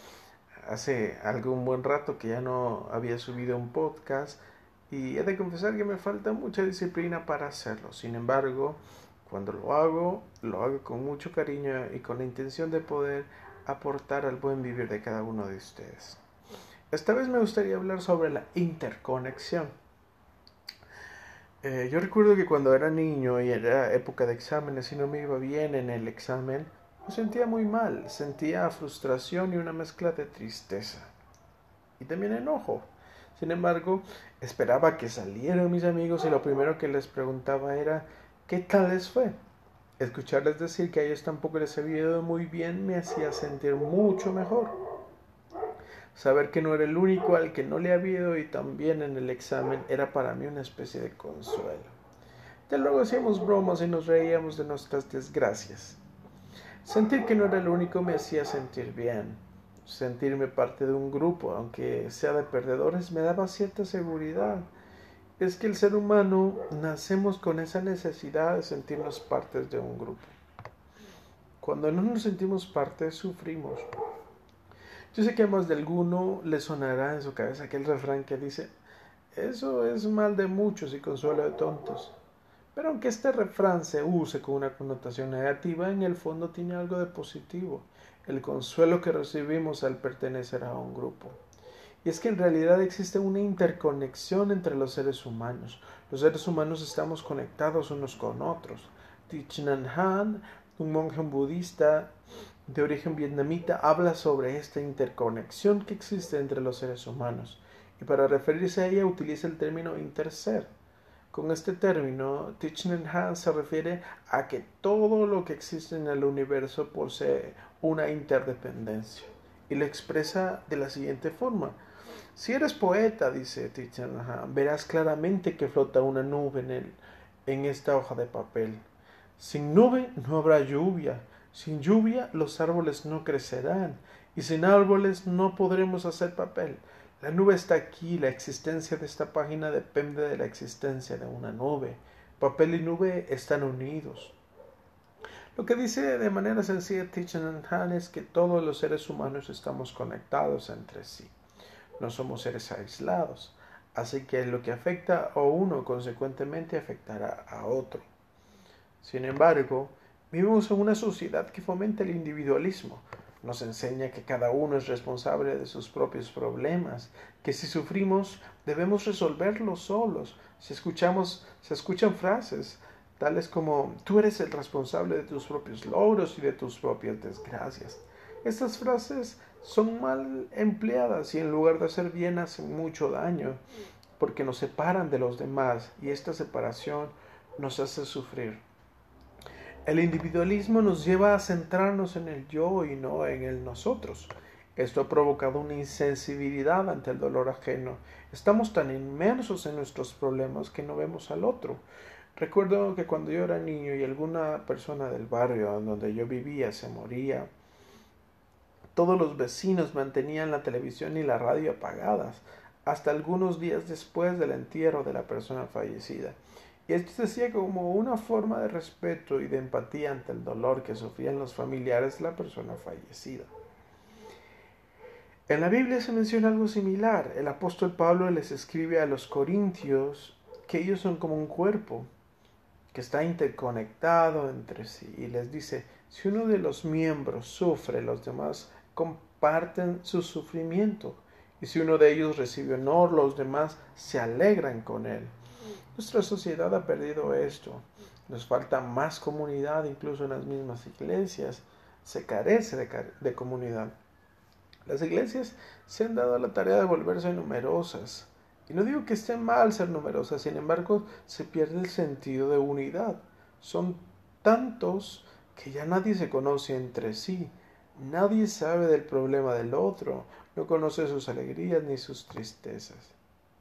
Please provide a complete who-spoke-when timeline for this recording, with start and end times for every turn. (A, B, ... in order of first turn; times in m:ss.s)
0:00.6-0:16.2 A
0:16.9-0:19.7 A
0:21.6-0:31.1 A
0:32.0-0:39.4 A
0:40.0-0:44.8 A
0:46.1-0:52.0 A
0:52.7-0:56.0 A
0:56.8-1:04.7 A
1:05.4-1:10.4 A
1:11.6-1:13.9 A
1:15.1-1:18.7 A
1:19.3-1:22.2 A
1:22.8-1:31.4 A
1:32.0-1:42.1 A
1:42.7-1:50.7 A
1:51.3-2:01.8 A
2:02.4-2:08.8 A
2:09.4-2:24.4 A
2:25.6-2:31.3 A
2:32.0-2:38.1 A
2:39.0-3:03.6 A
3:04.2-3:08.6 A
3:09.9-3:21.8 A
3:22.4-3:27.5 A
3:29.0-3:43.5 A
3:45.5-3:52.1 A
3:52.9-4:05.3 A
4:06.0-4:14.0 A
4:14.9-4:33.2 A